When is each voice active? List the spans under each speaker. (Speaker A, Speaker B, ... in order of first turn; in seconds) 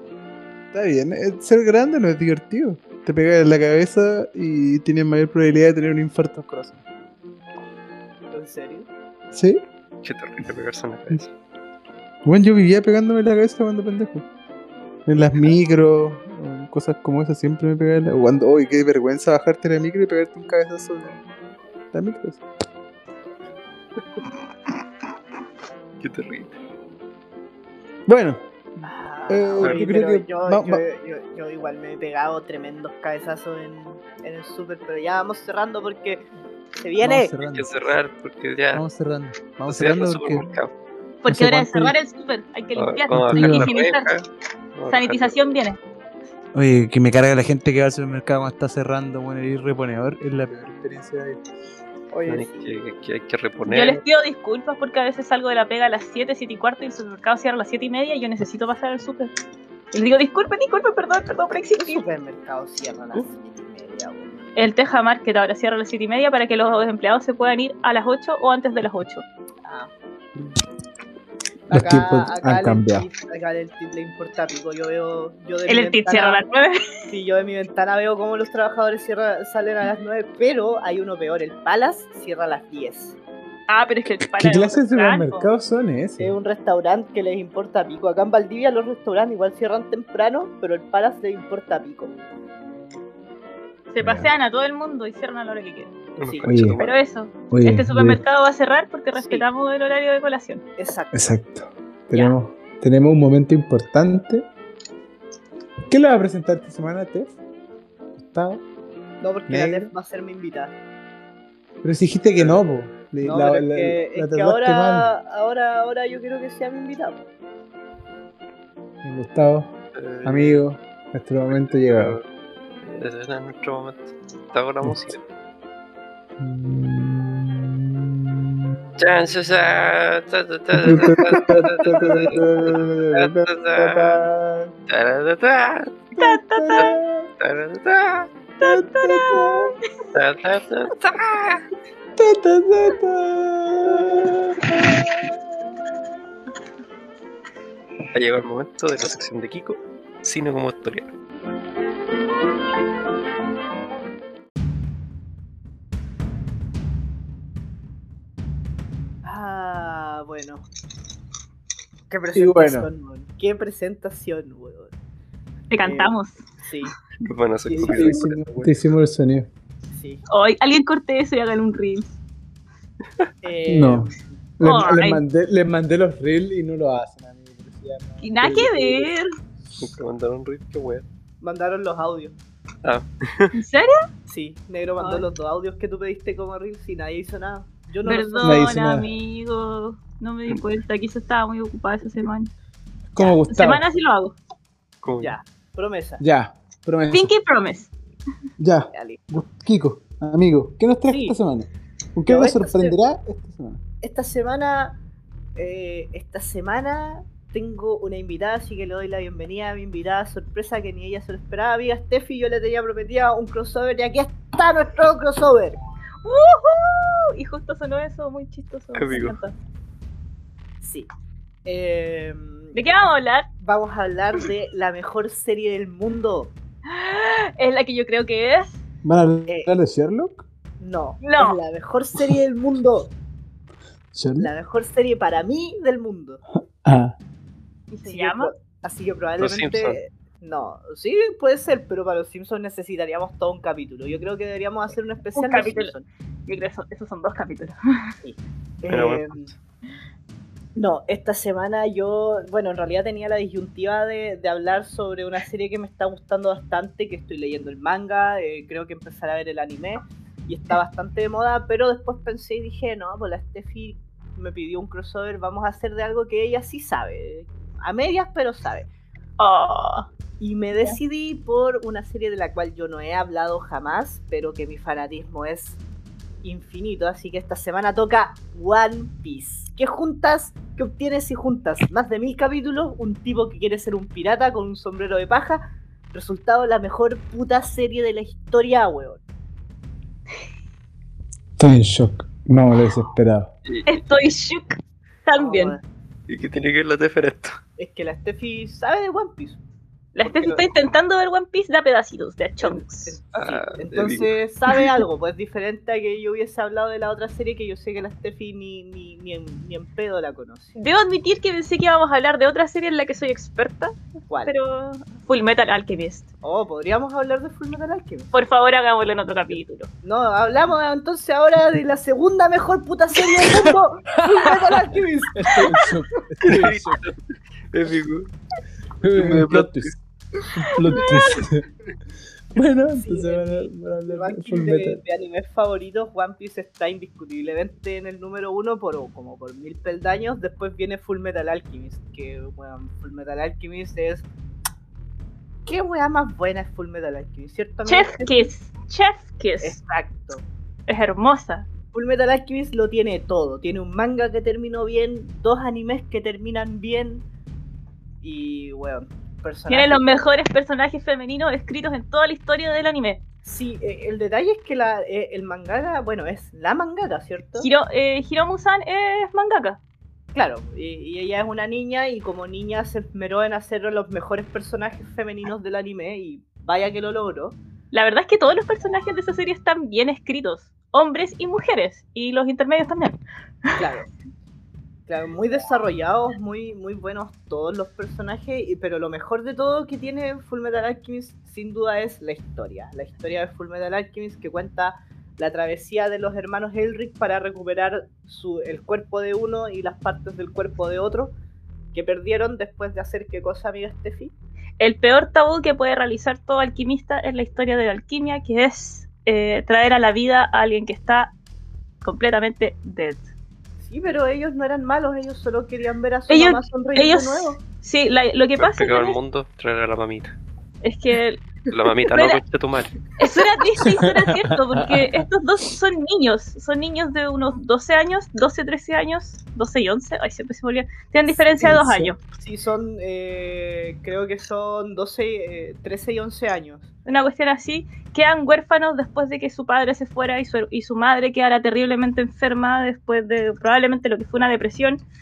Speaker A: 0.7-6.8, 9.3-9.6, 12.2-14.2, 15.1-21.2, 21.9-22.4, 28.1-28.4, 29.3-30.8, 37.0-37.9, 38.7-40.5, 41.3-42.0, 43.1-43.7, 46.5-51.4, 71.7-73.1, 84.3-86.3, 94.0-94.3, 96.5-96.8, 97.5-98.2, 101.1-104.5, 105.9-107.4, 108.2-108.6, 109.5-109.9, 111.8-115.1, 119.0-119.7, 120.2-122.2, 124.8-125.1, 126.4-128.9, 130.7-134.7, 136.2-137.3, 138.6-139.8, 142.2-144.7, 162.3-162.9, 167.7-169.5, 173.7-179.1, 188.4-189.1, 193.1-193.8, 196.2-197.3, 198.6-203.8, 229.0-230.4, 234.1-234.5, 236.8-237.2, 291.6-293.5, 324.4-327.0, 329.0-330.0, 330.5-331.6, 332.5-335.0, 431.6-432.1
Speaker B: 8.3-8.9, 28.8-36.2, 36.8-37.3, 52.1-52.8, 61.8-64.3, 69.6-69.9, 71.7-76.4, 77.1-83.2, 86.2-92.1, 96.2-96.5, 99.2-99.5, 100.8-101.2, 109.2-110.8, 113.2-117.2, 159.2-160.7, 162.1-164.9, 165.8-166.9, 169.9-170.2, 173.4-174.2, 181.4-182.3, 184.3-188.7, 195.2-196.2, 198.9-199.2, 201.1-201.4, 202.3-202.9, 204.0-205.0, 205.5-215.8, 220.8-221.1, 221.6-222.8, 223.6-226.5, 229.5-229.7, 230.8-233.1, 234.4-236.4, 238.0-246.0, 248.2-249.5, 250.8-268.9, 270.4-275.8, 276.4-289.2, 295.4-295.8, 297.8-299.6, 300.2-300.6, 302.6-310.8, 314.3-314.5, 316.4-318.3, 320.0-325.7, 332.9-344.2, 345.6-348.5, 349.6-350.4, 351.9-357.2, 358.2-360.2, 363.4-367.7, 370.3-377.6, 383.8-384.1, 385.1-401.3, 401.9-404.3, 413.8-417.6, 431.3-431.8, 432.3-436.9
Speaker C: 10.0-11.3, 26.0-26.5, 37.4-38.8, 39.6-40.7, 42.7-45.4, 52.3-54.0, 96.2-97.0, 112.3-112.6, 119.9-120.6, 121.5-122.2, 122.8-125.2, 129.0-134.2, 134.9-135.9, 136.8-138.3, 140.1-141.6, 148.1-151.1, 167.2-168.7, 179.8-181.0, 182.8-183.5, 195.0-195.3, 218.9-219.4, 239.4-240.0, 248.9-249.5, 296.3-297.6, 303.3-304.3, 326.4-327.2, 327.7-328.3, 329.1-329.9, 418.6-420.3, 421.7-423.0
Speaker D: 41.2-44.1, 44.9-45.8, 53.6-59.3, 59.9-62.0, 64.5-69.2, 75.7-76.8, 83.7-85.5, 93.9-95.9, 96.8-100.6, 136.2-136.9, 138.6-139.7, 165.7-166.4, 170.3-172.1, 174.6-175.2, 178.2-179.2, 183.5-184.0, 185.0-185.2, 188.0-192.5, 193.2-194.3, 197.1-197.9, 216.2-219.5, 222.7-223.5, 226.9-228.7, 231.2-231.6, 237.9-238.5, 245.3-245.9, 246.5-248.1, 269.4-270.1, 293.9-295.8, 300.1-303.2, 310.8-313.9, 314.4-316.3, 318.3-319.9, 330.9-331.4, 347.9-349.8, 350.9-351.7, 359.7-363.2, 367.6-369.8, 377.9-383.8, 404.8-411.3, 412.0-413.2, 416.3-419.2, 420.8-421.4, 422.1-422.4, 423.2-432.2, 437.1-445.0